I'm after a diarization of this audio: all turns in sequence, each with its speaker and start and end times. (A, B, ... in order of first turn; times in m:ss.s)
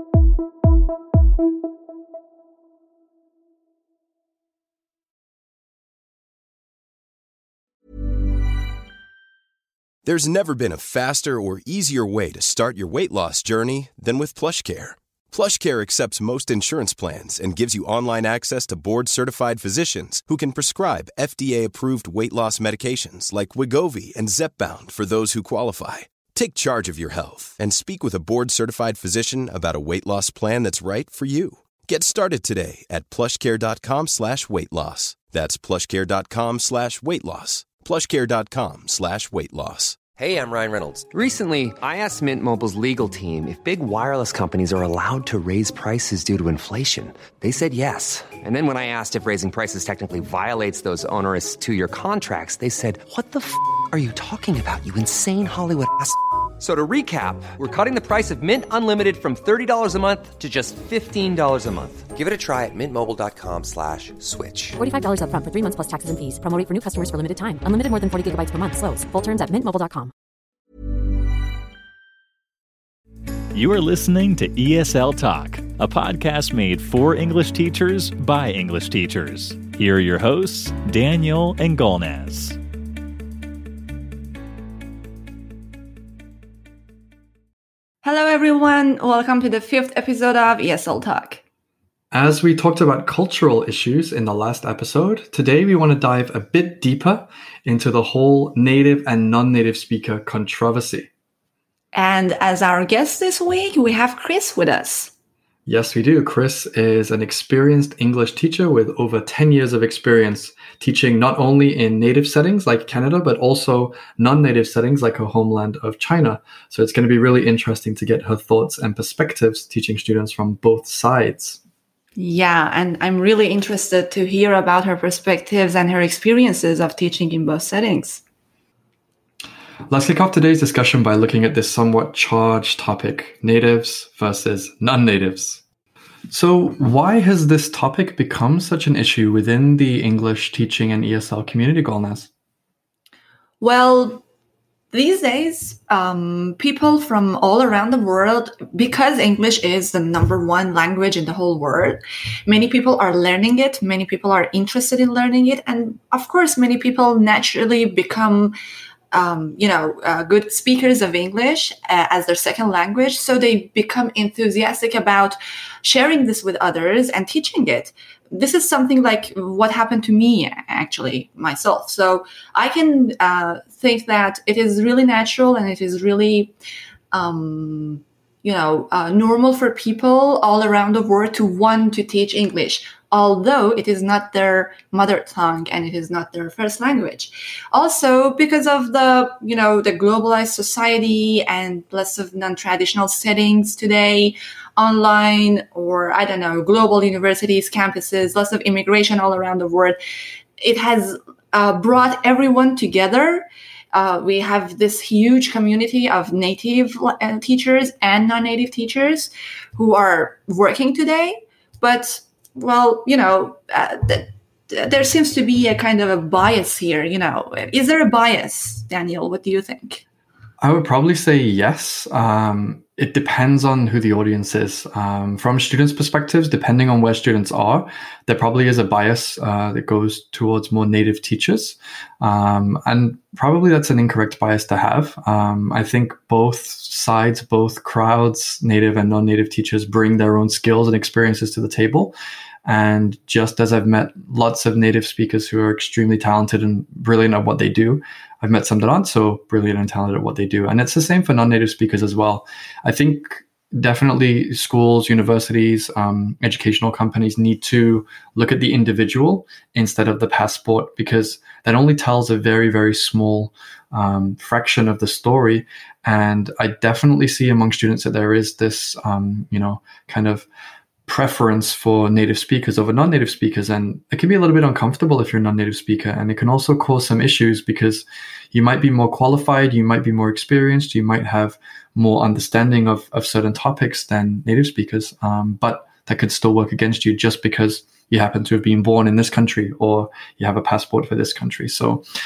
0:10.0-0:40.0 A
0:40.2-1:04.8 B
1:04.8-1:10.1 C
1:13.5-1:22.6 D
1:28.0-1:31.4 E
1:32.1-1:41.1 F
1:41.9-1:45.1 E
1:45.7-2:01.6 F
2:02.2-2:08.2 E
2:09.9-2:15.6 F
2:16.3-2:22.3 F
2:23.6-2:24.2 E
2:24.9-2:38.6 E
2:39.1-2:56.5 E
2:57.1-3:20.0 E
3:20.6-3:40.0 E
3:40.6-4:02.1 F
4:02.7-4:30.5 F
4:31.1-4:52.0 F